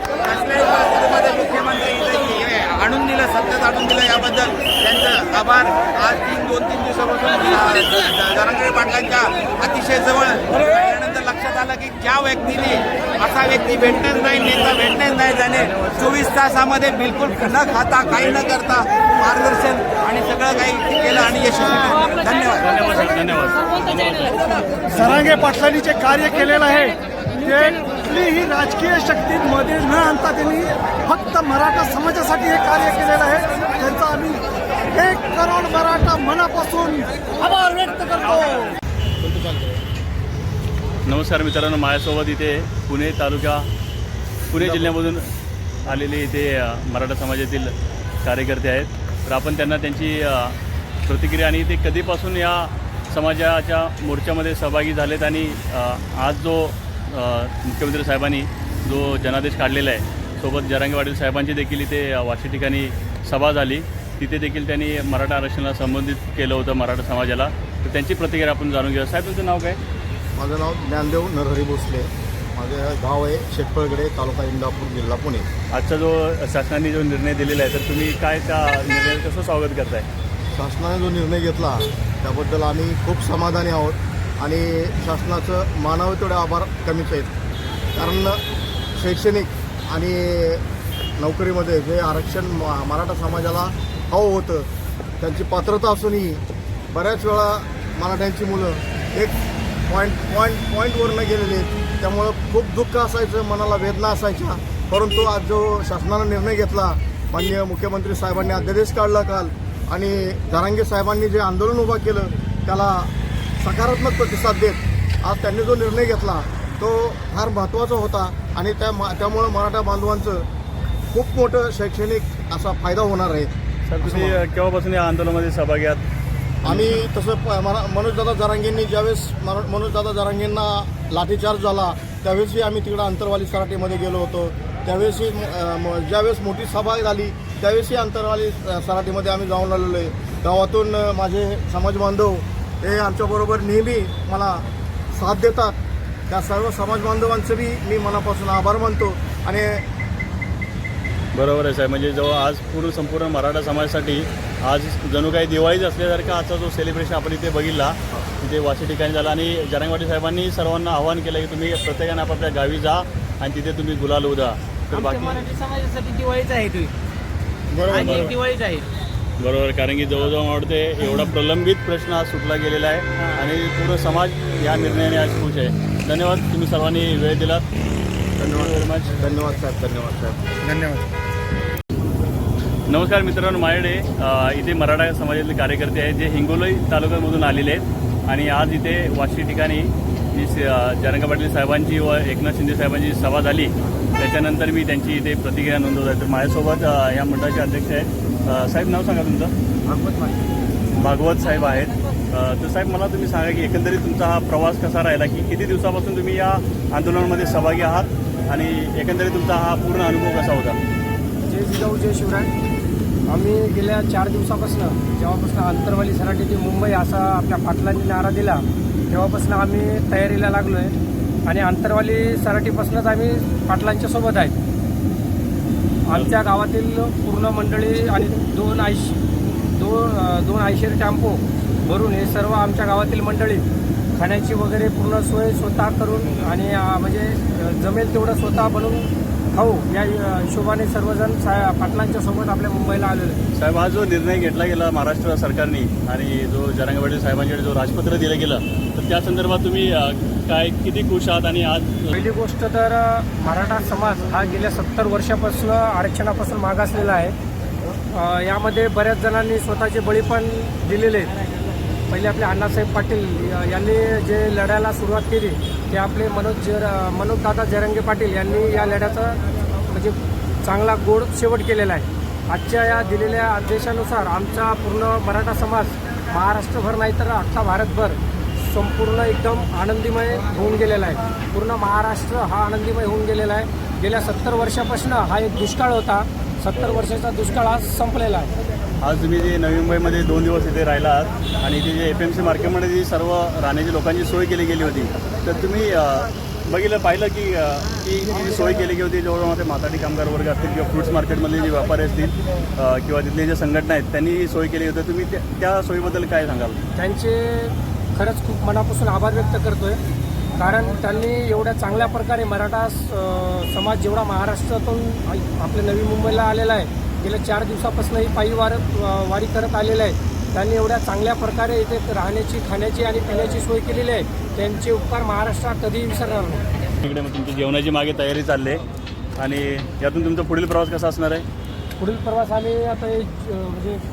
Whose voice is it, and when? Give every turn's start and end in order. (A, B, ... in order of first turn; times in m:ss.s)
0:00.2-0:22.6 A
0:15.6-0:16.1 B
0:18.1-0:18.4 B
0:22.6-0:25.4 B
0:24.9-0:34.4 C
0:34.9-0:38.7 C
0:39.2-0:39.7 D
0:41.1-0:43.7 B
0:44.5-0:45.3 B
0:45.9-1:09.8 B
1:10.4-1:15.5 E
1:15.7-1:20.1 B
1:20.6-1:27.3 E
1:28.0-1:28.4 E
1:29.0-1:30.6 E
1:31.2-1:34.7 E
1:35.2-1:36.4 E
1:36.9-1:39.3 E
1:39.9-2:00.4 E
2:01.1-2:04.4 E
2:03.9-2:06.0 B
2:06.6-2:25.8 E
2:26.3-2:29.8 E
2:31.3-2:45.4 B
2:45.0-2:46.9 D
2:47.7-2:48.3 E
2:47.9-2:48.4 B
2:48.0-2:48.8 D
2:49.4-2:57.6 B
2:58.4-3:00.4 E
2:58.4-2:59.1 B
3:00.6-3:01.0 D
3:02.9-3:19.5 B
3:19.8-3:20.4 D
3:21.0-3:30.8 B
3:31.5-3:32.5 F
3:33.3-3:40.9 F
3:41.5-3:44.6 F
3:46.1-3:49.2 F
3:49.8-3:53.6 F
3:54.2-4:03.4 F
4:03.6-4:12.1 B
4:12.1-4:17.3 F
4:18.1-4:21.3 F
4:22.1-4:29.4 F
4:29.9-4:48.5 F
4:49.0-5:06.8 B
5:07.0-5:10.0 F
5:10.6-5:26.6 F
5:27.0-5:28.8 B
5:29.4-5:31.4 B
5:32.0-5:34.0 F